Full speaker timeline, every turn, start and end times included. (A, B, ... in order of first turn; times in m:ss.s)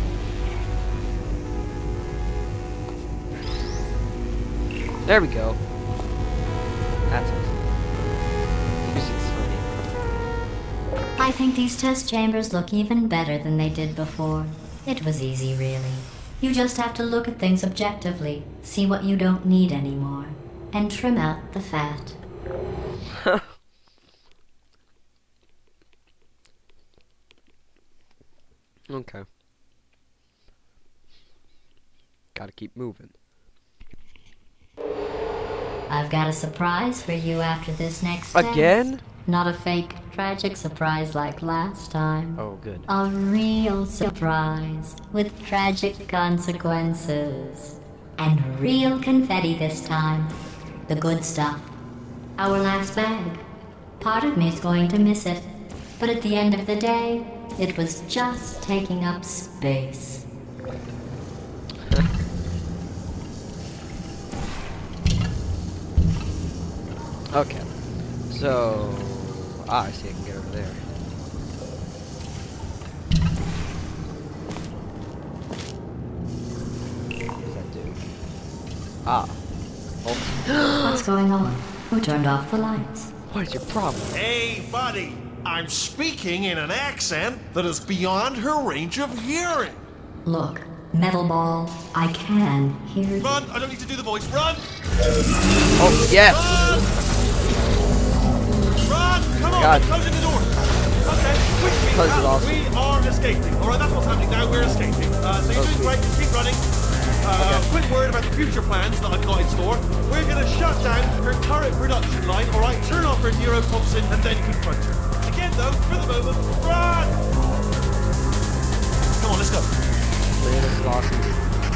0:05.0-0:05.6 A
0:07.1-0:07.7 A
0:08.8-0:09.7 A
0:11.2-0:22.2 B
0:28.9-0:29.2 A
0:32.3-0:33.1 A
0:35.9-0:50.4 B
0:38.3-0:39.0 A
0:42.4-0:42.9 A
0:50.9-0:51.7 B
0:52.4-0:53.4 B
0:54.0-1:00.2 B
1:07.3-1:10.8 A
1:17.4-1:18.0 A
1:19.0-1:19.4 A
1:20.0-1:21.0 A
1:20.8-1:23.1 B
1:23.3-1:24.2 A
1:24.1-1:29.8 C
1:30.2-1:33.3 B
1:33.2-1:34.7 C
1:35.8-1:36.6 A
1:36.1-1:36.9 C
1:38.8-1:46.6 C
1:39.5-1:39.9 A
1:41.9-1:42.6 A
1:45.5-1:46.0 A
1:47.2-1:57.2 C
1:47.3-1:47.7 A
1:59.2-1:59.7 C
2:00.4-2:01.4 A